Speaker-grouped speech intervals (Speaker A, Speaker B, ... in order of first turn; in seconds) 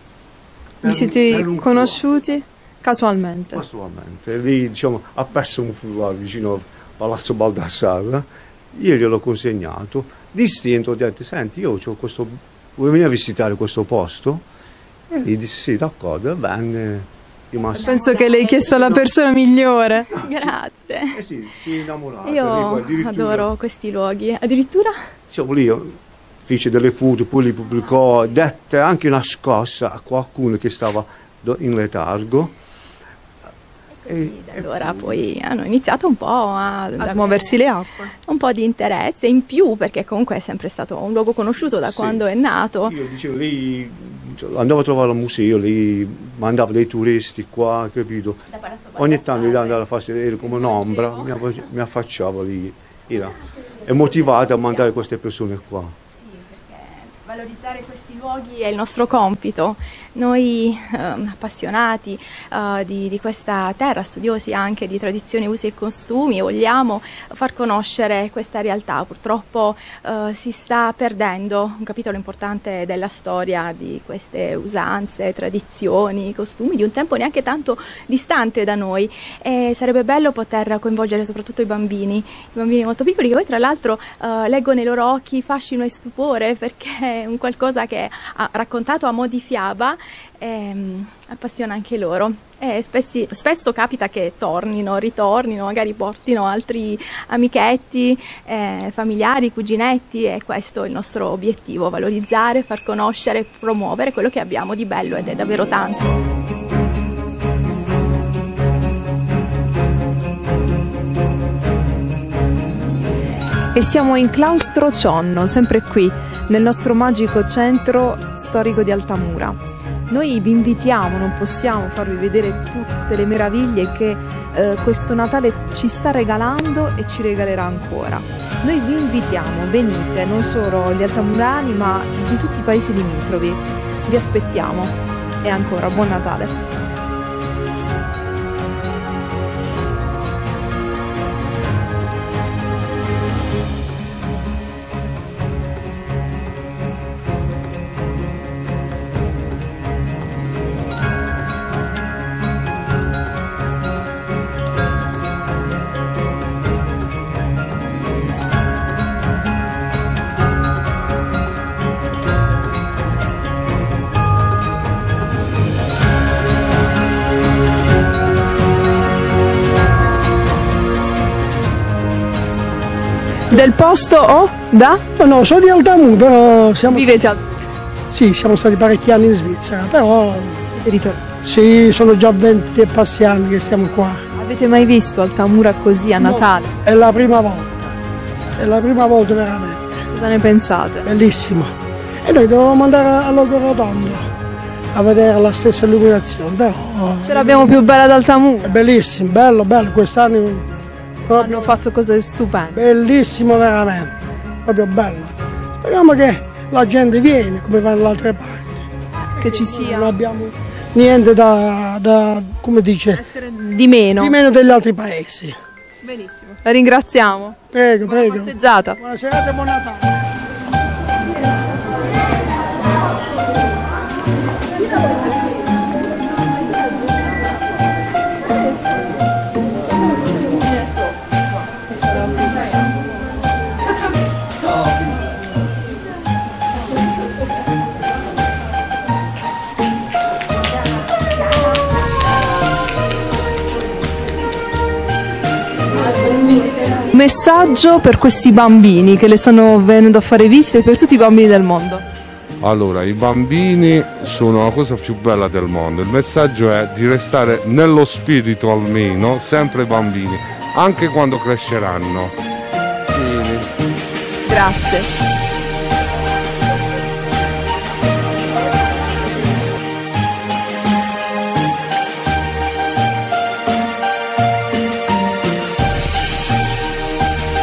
Speaker A: 0.8-2.1, 3.5-14.4, 15.1-19.1, 20.2-20.6, 21.1-23.5, 25.3-32.5, 34.1-35.2, 41.4-42.2, 42.8-48.4, 49.0-55.9
Speaker B: 0.8-3.6, 17.8-20.1, 37.0-38.1, 113.7-119.6, 120.1-136.5, 173.5-175.0, 176.9-177.4, 180.8-181.2, 184.3-186.7, 190.1-191.1, 197.2-198.7, 201.3-202.8, 209.4-210.1, 213.1-214.3, 216.0-219.0, 247.1-252.0, 264.4-265.1
Speaker C: 17.7-19.0, 20.1-21.2, 22.2-25.0, 34.0-37.6, 38.2-43.0, 48.5-49.8, 50.4-51.4, 56.3-106.2
Speaker D: 175.2-177.1, 178.1-180.7, 181.4-184.2, 186.2-187.9, 188.6-190.0, 191.0-194.3, 194.9-197.8, 198.6-200.7, 201.2-201.8, 202.7-204.1, 204.6-208.8, 209.4-213.2, 214.2-215.6, 217.7-220.1
Speaker E: 252.6-262.3, 263.1-263.7